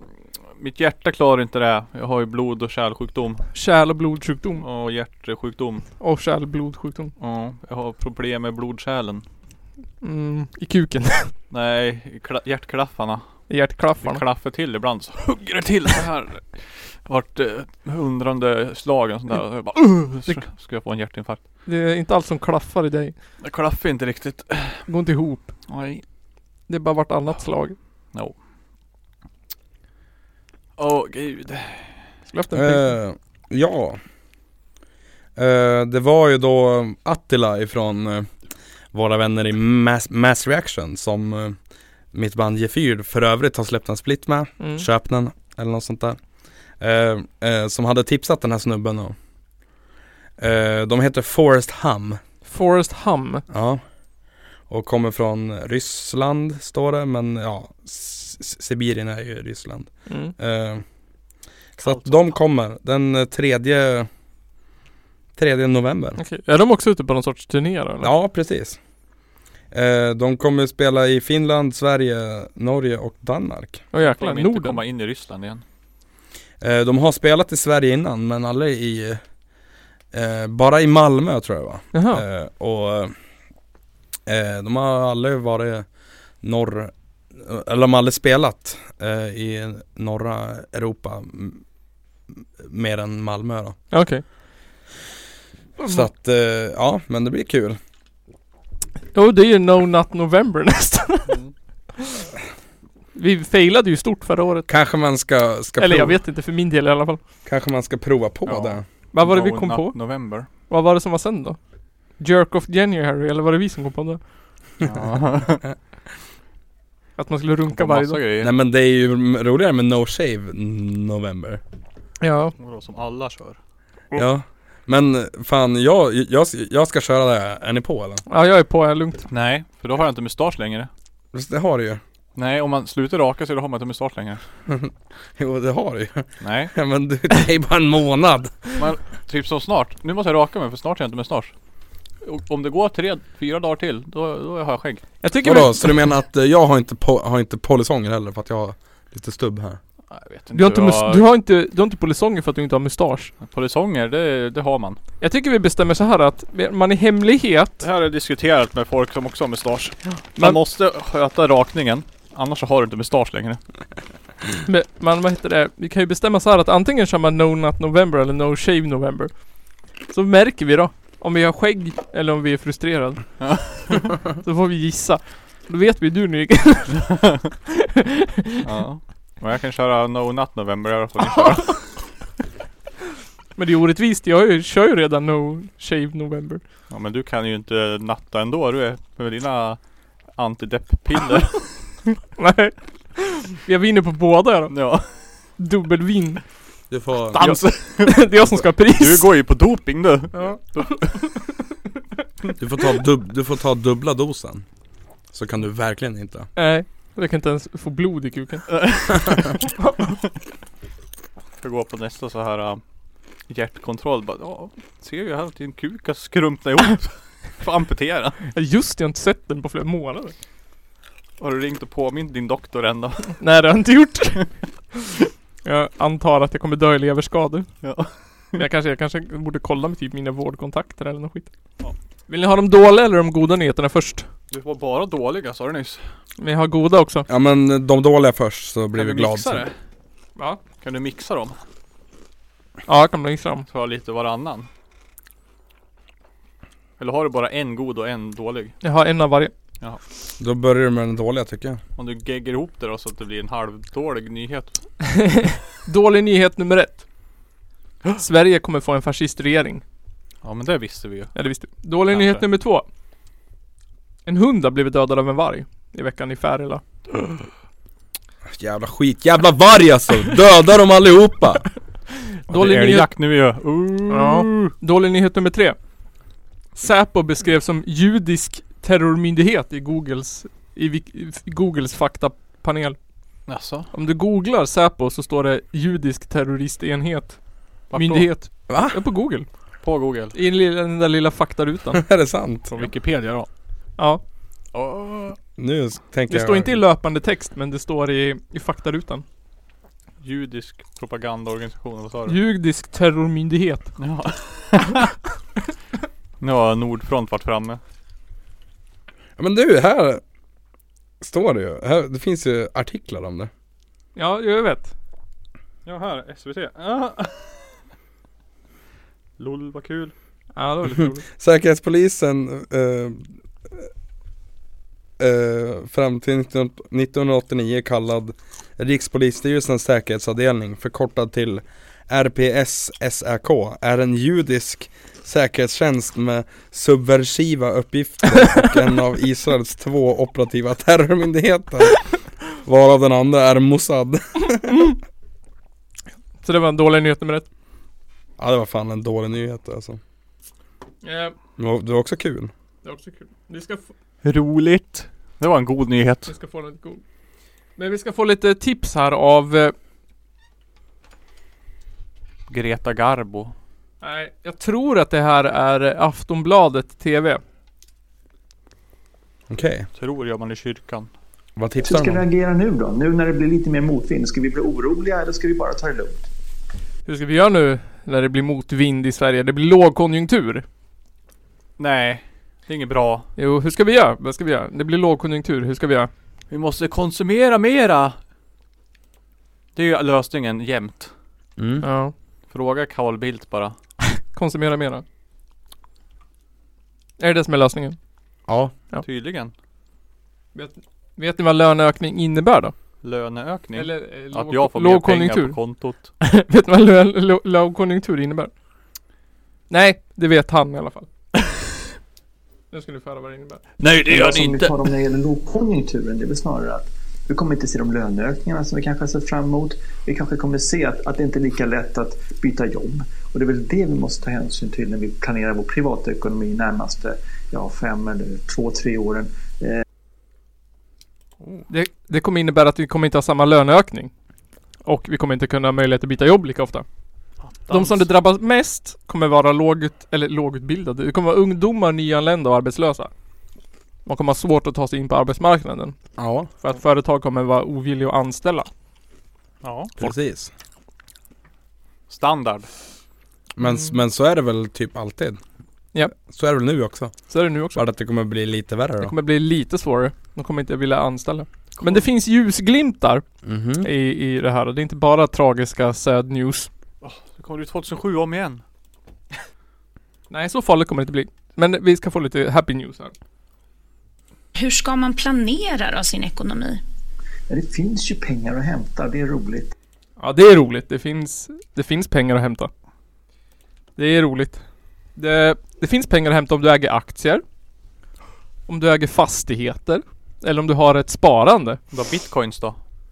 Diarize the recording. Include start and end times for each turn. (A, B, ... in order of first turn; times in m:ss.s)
0:00.6-0:03.5 A
0:03.5-0:04.6 B
0:04.6-0:05.8 A
0:06.0-0:07.1 B
0:07.2-0:09.2 A
0:10.0-0:11.3 B
0:11.5-0:21.4 A
0:13.5-0:14.2 B
0:21.6-0:23.1 B
0:23.4-0:24.8 A
0:24.9-0:25.5 B
0:25.7-0:26.0 A
0:26.7-0:27.8 B
0:30.8-0:32.0 A
0:32.3-0:32.9 B
0:32.5-0:34.0 C
0:35.4-0:38.3 C
0:38.9-0:41.6 C
0:42.1-0:46.2 C
0:44.6-0:44.8 B
0:46.8-0:49.1 C
0:50.4-0:52.2 C
0:52.4-0:53.4 B
0:53.5-0:53.8 C
0:54.7-1:00.8 C
1:00.1-1:00.3 B
1:01.8-1:02.3 A
1:01.8-1:04.1 C
1:05.4-1:06.2 C
1:06.2-1:08.1 B
1:08.0-1:08.8 C
1:09.7-1:13.8 C
1:13.9-1:14.8 B
1:14.0-1:15.6 A
1:16.6-1:19.2 C
1:20.1-1:23.1 C
1:21.9-1:22.2 B
1:24.2-1:25.9 C
1:26.4-1:31.6 C
1:32.6-1:33.8 C
1:33.9-1:34.2 B
1:35.8-1:36.1 B
1:35.8-1:37.8 C
1:39.1-1:41.4 B
1:41.3-1:41.5 A
1:43.1-1:44.7 B
1:44.7-1:46.2 C
1:45.8-1:47.2 B
1:47.4-1:48.8 C
1:48.4-1:50.5 A
1:49.1-1:51.6 B
1:52.2-1:54.2 B
1:54.8-1:55.6 A
1:57.2-1:58.2 B
1:57.7-1:58.5 A
1:58.4-2:01.6 C
2:02.2-2:02.5 B
2:02.6-2:03.6 A
2:04.1-2:08.2 C
2:08.3-2:09.2 B
2:09.3-2:10.9 A
2:11.3-2:12.0 C
2:12.4-2:14.4 A
2:14.7-2:18.8 C
2:16.4-2:16.7 A
2:18.8-2:21.5 A
2:22.2-2:25.0 A
2:25.2-2:26.0 B
2:25.4-2:29.8 C
2:30.1-2:31.2 A
2:30.5-2:33.3 B
2:33.4-2:35.0 A
2:35.2-2:37.8 B
2:37.8-2:43.6 A
2:40.1-2:40.6 B
2:44.6-2:49.3 B
2:50.1-2:53.5 B
2:53.4-2:54.1 A
2:54.4-2:57.2 B
2:58.6-3:02.0 A
3:03.6-3:06.6 B
3:06.9-3:09.8 A
3:10.3-3:12.1 A
3:12.4-3:14.7 B
3:14.7-3:15.3 A
3:15.6-3:16.4 B
3:16.9-3:17.4 C
3:17.3-3:21.4 A
3:17.4-3:19.3 B
3:20.3-3:21.5 B
3:22.6-3:24.6 C
3:25.3-3:26.5 C
3:26.6-3:28.8 B
3:28.7-3:29.5 A
3:31.6-3:32.8 A
3:33.5-3:38.4 A
3:38.5-3:40.3 B
3:41.4-3:43.4 A
3:43.4-3:44.5 B
3:45.6-3:47.7 B
3:47.8-3:48.6 A
3:48.5-3:51.5 B
3:52.3-3:54.3 B
3:54.5-3:56.0 A
3:56.4-3:57.2 B
3:57.3-3:59.6 C
3:58.9-3:59.7 A
4:00.8-4:01.6 A
4:02.9-4:03.6 B
4:03.7-4:04.7 A
4:07.0-4:08.8 A
4:08.8-4:09.5 B
4:10.4-4:11.8 C
4:12.0-4:14.8 A
4:15.0-4:17.0 B
4:18.2-4:19.8 B
4:20.4-4:21.3 A
4:21.3-4:22.8 B
4:22.1-4:22.4 A
4:24.2-4:26.8 B
4:28.5-4:31.7 C
4:32.5-4:33.1 B
4:32.5-4:34.7 A
4:34.1-4:35.8 B
4:36.8-4:43.0 B
4:43.5-4:43.9 A
4:43.9-4:49.5 B
4:47.9-4:48.3 A
4:48.7-4:49.0 C
4:49.8-4:50.3 A
4:50.3-4:52.0 B
4:51.9-4:52.7 C
4:52.7-4:53.5 A
4:54.7-4:55.4 A
4:55.6-4:56.8 C
4:56.3-4:59.2 B
5:00.2-5:02.4 A
5:02.3-5:04.0 B
5:04.0-5:05.1 A
5:06.4-5:07.8 A
5:09.4-5:10.2 C
5:11.2-5:13.5 C
5:14.2-5:14.9 B
5:15.8-5:17.7 A
5:19.4-5:20.1 A
5:20.5-5:21.2 B
5:21.4-5:23.9 C
5:25.2-5:42.1 C
5:42.6-5:44.9 C
5:46.4-5:47.5 B
5:48.4-5:50.0 C
5:51.0-5:51.3 B
5:51.6-5:52.5 C
5:52.8-5:53.9 B
5:54.2-5:56.3 A
5:56.3-5:57.0 B
5:57.8-5:59.7 B
6:02.5-6:03.5 A
6:04.0-6:07.4 B
6:09.5-6:09.9 C
6:10.0-6:11.1 A
6:11.6-6:12.2 C
6:11.8-6:16.2 D
6:17.0-6:20.6 B
6:21.8-6:23.3 A
6:23.4-6:26.1 B
6:26.5-6:28.2 A
6:29.7-6:31.1 A
6:31.6-6:31.8 C
6:31.8-6:32.1 B
6:32.5-6:33.8 A
6:34.2-6:35.0 B
6:37.2-6:38.0 B
6:38.5-6:38.7 C
6:39.0-6:39.5 A
6:40.5-6:42.7 B
6:43.0-6:46.1 A
6:43.7-6:45.6 B
6:46.2-6:48.5 B
6:49.7-6:51.1 B
6:52.7-6:53.6 B
6:53.8-6:54.9 A
6:54.1-7:09.8 D
7:11.7-7:14.1 B
7:14.8-7:16.8 B
7:17.4-7:18.0 A
7:17.7-7:23.1 B
7:24.0-7:26.0 B
7:26.2-7:26.5 C
7:26.6-7:28.7 B
7:29.6-7:29.9 A
7:30.0-7:30.5 C
7:32.1-7:32.7 A
7:33.6-7:35.4 C
7:33.6-7:33.9 B
7:36.1-7:39.1 C
7:37.3-7:37.8 B
7:39.0-7:43.2 B
7:41.8-7:42.0 A
7:43.4-7:43.9 C
7:43.8-7:46.7 B
7:47.0-7:48.6 A
7:50.3-7:53.1 B
7:54.5-7:56.8 E
7:57.5-7:59.7 D
8:00.2-8:02.7 B
8:04.0-8:04.6 B
8:05.2-8:07.4 B
8:08.7-8:11.8 B
8:11.9-8:12.8 A